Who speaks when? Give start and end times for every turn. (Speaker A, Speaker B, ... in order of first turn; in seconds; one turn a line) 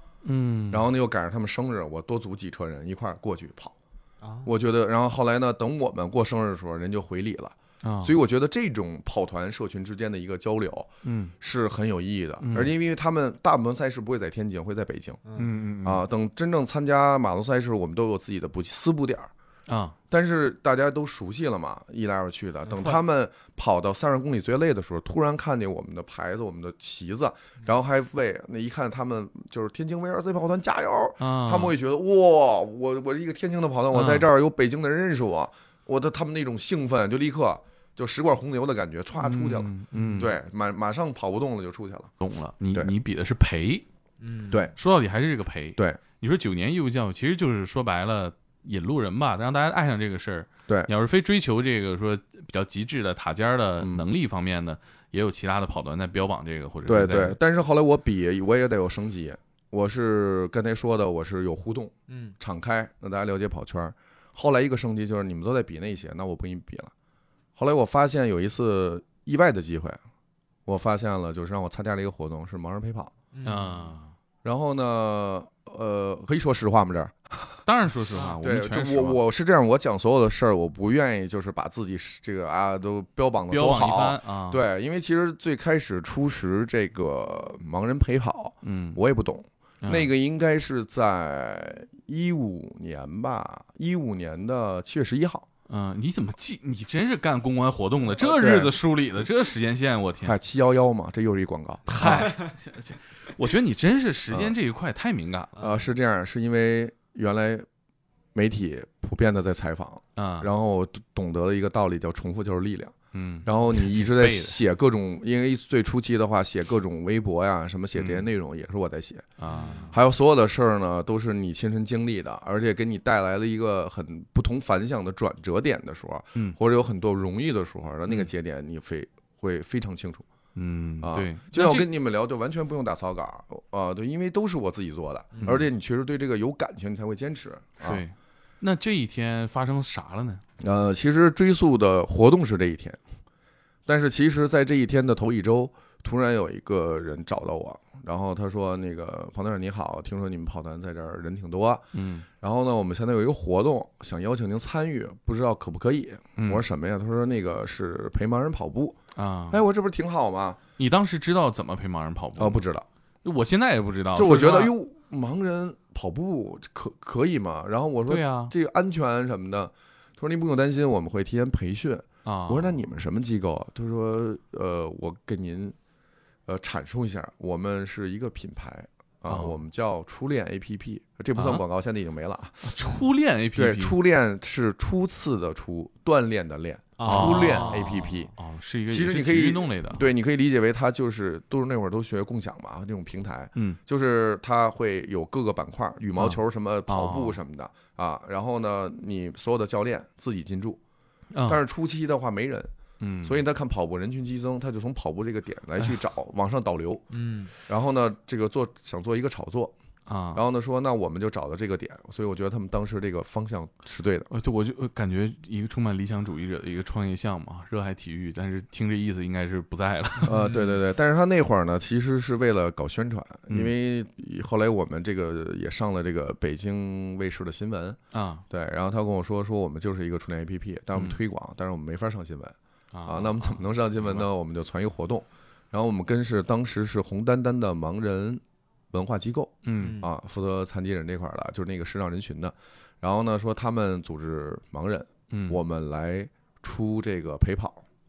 Speaker A: 0.2-0.9
Speaker B: 0.7-3.7
Speaker C: 4.2-4.5
Speaker B: 4.4-15.2
Speaker A: 7.8-8.1
Speaker A: 11.0-11.3
Speaker A: 12.4-12.7
Speaker A: 15.3-16.0
Speaker B: 15.8-19.3
Speaker A: 19.7-19.9
Speaker B: 20.1-42.1
Speaker C: 22.6-23.0
Speaker A: 31.2-31.7
Speaker A: 33.9-34.3
Speaker A: 39.2-40.3
Speaker C: 39.9-40.2
Speaker A: 42.2-43.8
Speaker C: 44.2-44.7
Speaker A: 44.8-57.4
Speaker B: 53.8-54.0
Speaker B: 56.9-66.9
Speaker C: 62.1-62.4
Speaker B: 67.5-70.0
Speaker B: 70.7-73.1
Speaker C: 73.3-73.9
Speaker A: 73.4-74.1
Speaker B: 74.4-77.6
Speaker A: 77.6-79.2
Speaker B: 78.4-95.5
Speaker A: 83.5-84.6
Speaker A: 88.6-89.0
Speaker A: 89.8-90.1
Speaker A: 95.7-100.3
Speaker B: 98.2-98.8
Speaker B: 100.2-102.3
Speaker A: 101.9-105.6
Speaker B: 104.3-104.5
Speaker C: 105.6-105.8
Speaker B: 105.6-107.7
Speaker B: 108.3-119.3
Speaker A: 110.2-110.5
Speaker A: 113.1-114.6
Speaker A: 117.9-118.3
Speaker A: 119.4-119.9
Speaker C: 119.5-119.9
Speaker B: 119.9-130.2
Speaker A: 130.5-131.9
Speaker B: 131.0-138.0
Speaker C: 135.3-135.6
Speaker A: 135.4-135.6
Speaker A: 137.8-140.4
Speaker B: 140.6-143.0
Speaker B: 143.9-159.0
Speaker A: 151.9-152.3
Speaker A: 156.4-156.6
Speaker A: 159.1-159.6
Speaker B: 159.5-160.6
Speaker A: 160.8-162.6
Speaker B: 162.3-162.9
Speaker A: 163.2-164.7
Speaker B: 164.1-175.8
Speaker A: 168.1-168.5
Speaker A: 172.2-172.8
Speaker B: 176.4-182.7
Speaker A: 179.3-179.6
Speaker A: 181.3-181.6
Speaker A: 182.6-183.9
Speaker B: 183.5-188.3
Speaker C: 187.0-187.9
Speaker A: 187.0-190.0
Speaker B: 188.9-200.8
Speaker A: 196.9-197.4
Speaker A: 201.3-201.6
Speaker B: 201.4-202.7
Speaker A: 203.0-203.4
Speaker B: 203.2-207.0
Speaker C: 207.1-207.5
Speaker B: 207.6-209.7
Speaker A: 210.1-210.4
Speaker B: 210.3-214.3
Speaker A: 214.3-220.4
Speaker B: 220.2-228.0
Speaker A: 228.1-228.4
Speaker B: 228.5-232.5
Speaker A: 230.9-231.2
Speaker A: 232.9-234.3
Speaker B: 233.1-247.8
Speaker A: 239.6-240.0
Speaker C: 239.8-240.1
Speaker A: 245.3-245.6